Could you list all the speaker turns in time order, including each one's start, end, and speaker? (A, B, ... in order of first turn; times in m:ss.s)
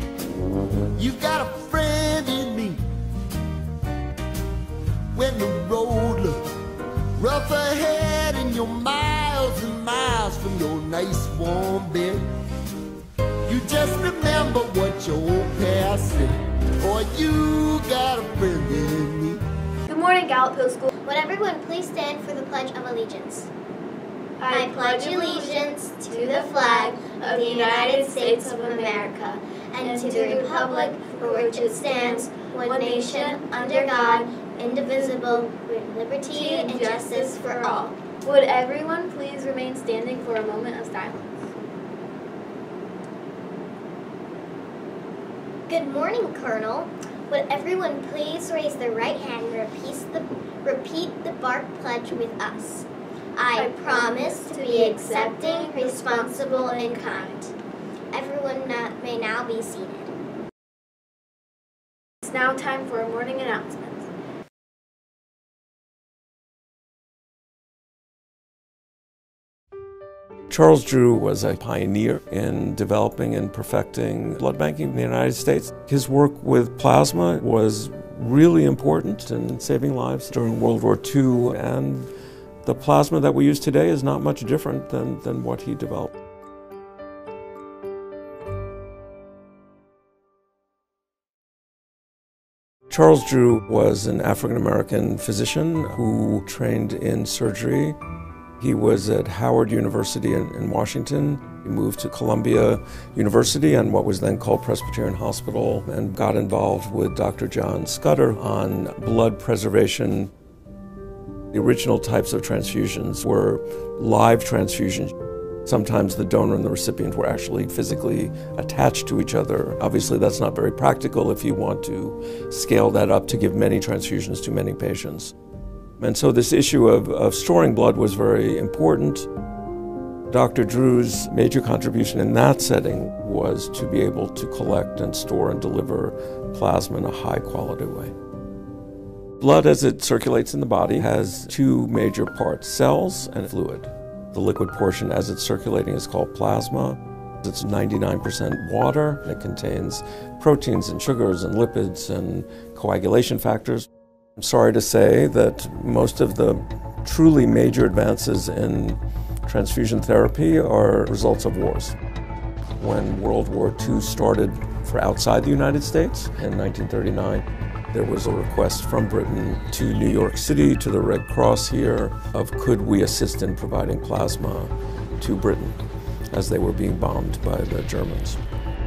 0:01.0-0:02.8 A
0:05.1-0:06.4 A
0:07.2-0:12.2 A
0:13.4-0:19.4 A
0:19.9-0:20.9 B
0:21.0-0:23.5 C
0:24.4-0:29.3 B
0:24.5-0:37.9 C
0:29.8-0:35.5 B
0:36.3-0:41.5 B
0:45.7-0:57.5 C
0:53.5-0:57.4 B
0:58.1-1:00.1 C
1:02.2-1:04.1 B
1:10.5-1:22.1 D
1:22.6-1:26.1 D
1:32.9-1:38.0 D
1:38.6-1:50.3 D
1:51.5-1:55.1 D
1:55.6-2:05.3 D
2:06.0-2:09.3 D
2:10.3-2:18.1 D
2:19.4-2:42.0 D
2:42.8-2:55.8 D
2:56.3-2:58.4 D